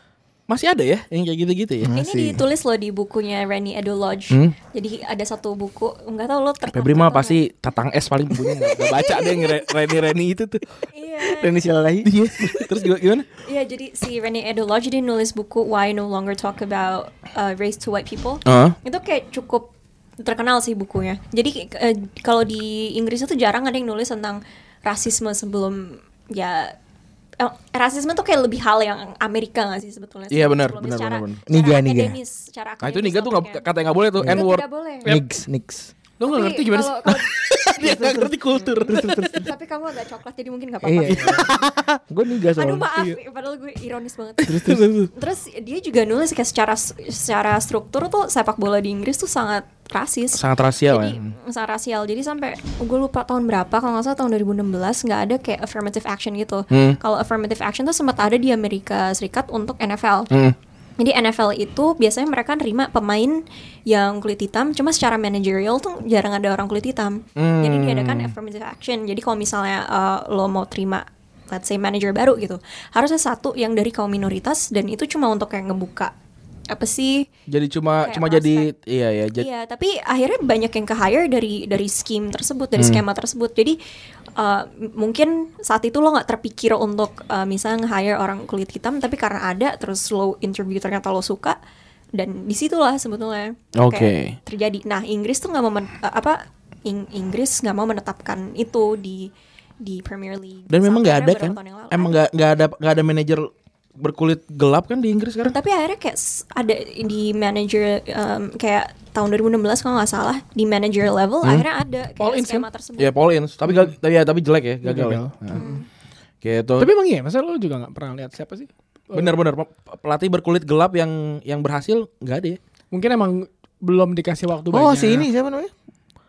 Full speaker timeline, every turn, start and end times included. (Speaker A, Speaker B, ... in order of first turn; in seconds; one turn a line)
Speaker A: 0.5-1.9
Speaker B: 1.8-2.5
Speaker C: 1.9-7.4
Speaker A: 6.7-10.7
Speaker C: 10.9-11.6
Speaker B: 11.2-12.5
Speaker A: 12.0-13.3
Speaker C: 13.4-19.7
Speaker A: 18.4-18.8
Speaker C: 20.2-26.7
Speaker C: 27.4-33.6
Speaker A: 30.3-31.4
Speaker B: 31.5-32.2
Speaker A: 32.8-34.6
Speaker C: 34.3-35.1
Speaker B: 35.0-35.9
Speaker D: 36.2-37.1
Speaker C: 36.3-38.3
Speaker A: 37.1-39.4
Speaker B: 37.8-38.1
Speaker B: 38.8-39.5
Speaker C: 38.8-41.5
Speaker B: 40.8-42.9
Speaker A: 41.0-41.5
Speaker C: 42.5-60.3
Speaker B: 44.5-44.9
Speaker A: 44.5-45.1
Speaker A: 50.3-51.2
Speaker A: 56.7-57.0
Speaker C: 61.0-76.1
Speaker A: 67.4-68.3
Speaker C: 76.7-77.3
Speaker A: 77.5-79.5
Speaker C: 78.0-78.7
Speaker C: 79.4-83.8
Speaker A: 82.8-83.0
Speaker C: 84.4-91.6
Speaker C: 92.1-102.2
Speaker A: 93.8-94.3
Speaker A: 100.7-105.5
Speaker C: 105.5-113.2
Speaker D: 112.2-112.7
Speaker A: 113.0-115.7
Speaker D: 114.8-115.3
Speaker C: 115.5-115.8
Speaker A: 116.4-116.9
Speaker D: 116.8-119.4
Speaker A: 119.1-122.6
Speaker D: 122.9-125.3
Speaker B: 124.7-125.7